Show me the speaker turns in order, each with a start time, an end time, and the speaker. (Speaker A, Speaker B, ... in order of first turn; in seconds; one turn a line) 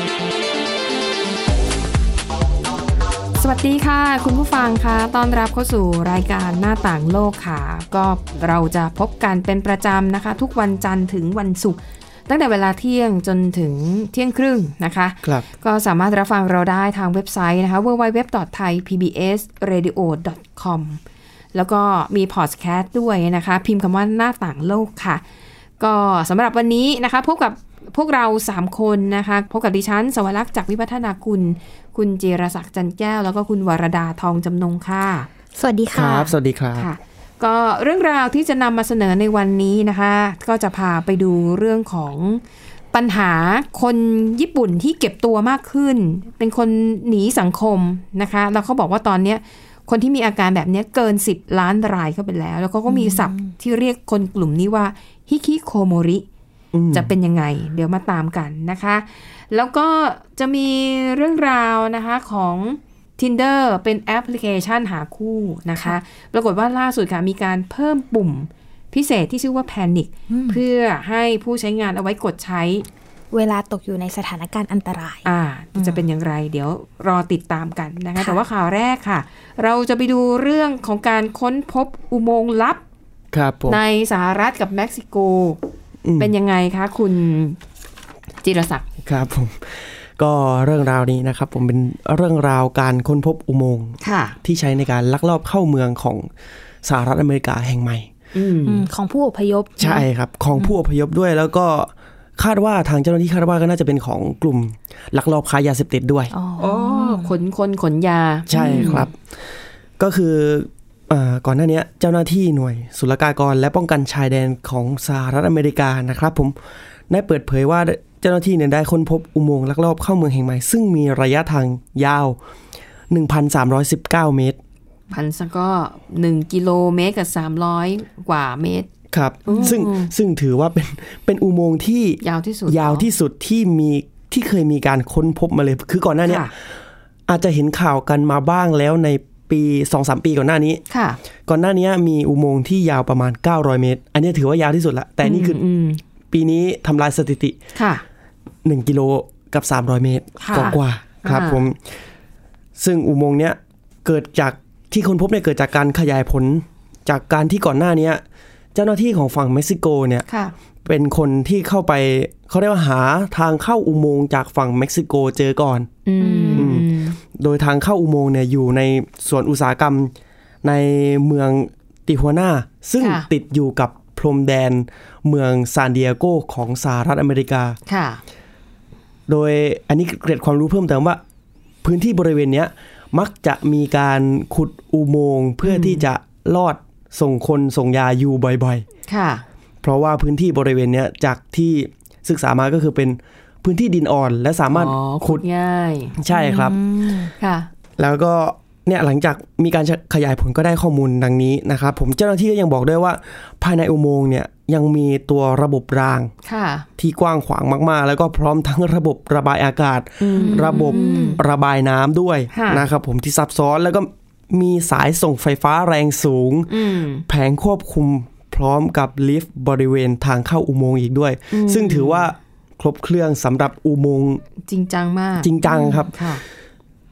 Speaker A: 3.4-21.0
Speaker A: 21.5-25.2
Speaker A: 25.8-35.3
Speaker B: 35.6-36.3
Speaker C: 35.9-36.9
Speaker A: 36.8-42.4
Speaker A: 42.9-56.2
Speaker B: 52.9-53.5
Speaker C: 56.7-57.1
Speaker A: 56.9-72.8
Speaker B: 70.3-70.6
Speaker B: 73.3-76.0
Speaker A: 75.2-82.8
Speaker C: 83.3-83.8
Speaker A: 83.7-85.6
Speaker C: 86.0-86.3
Speaker A: 86.2-87.6
Speaker A: 88.4-88.8
Speaker C: 89.0-96.3
Speaker A: 94.0-94.3
Speaker C: 96.8-98.1
Speaker A: 98.3-98.9
Speaker B: 98.7-100.0
Speaker C: 99.8-106.3
Speaker B: 106.3-107.3
Speaker A: 106.6-109.1
Speaker C: 108.5-109.1
Speaker B: 108.5-109.0
Speaker C: 110.0-116.6
Speaker C: 117.1-122.4
Speaker C: 123.1-124.6
Speaker A: 125.1-128.9
Speaker C: 129.1-136.5
Speaker A: 129.5-130.1
Speaker A: 132.2-133.1
Speaker A: 136.2-136.5
Speaker C: 137.3-140.8
Speaker A: 140.9-141.2
Speaker C: 141.5-145.6
Speaker A: 145.2-146.0
Speaker C: 146.3-147.6
Speaker A: 147.8-148.0
Speaker C: 148.6-151.8
Speaker A: 150.4-151.6
Speaker C: 152.8-158.2
Speaker C: 158.8-160.2
Speaker A: 160.3-160.5
Speaker C: 160.8-165.9
Speaker A: 166.1-167.2
Speaker B: 166.2-166.7
Speaker C: 166.5-177.8
Speaker A: 173.0-173.3
Speaker A: 177.9-178.2
Speaker C: 179.3-181.2
Speaker C: 181.8-188.8
Speaker A: 185.6-186.1
Speaker A: 189.1-189.4
Speaker C: 189.8-195.4
Speaker A: 194.7-196.2
Speaker C: 196.1-196.8
Speaker B: 196.3-197.3
Speaker A: 197.4-197.7
Speaker C: 198.0-206.3
Speaker A: 206.4-206.9
Speaker C: 207.0-216.7
Speaker A: 210.2-211.4
Speaker B: 210.4-211.4
Speaker A: 212.5-212.8
Speaker A: 216.7-217.2
Speaker C: 217.3-224.4
Speaker A: 221.5-222.3
Speaker A: 224.7-226.4
Speaker C: 225.4-226.4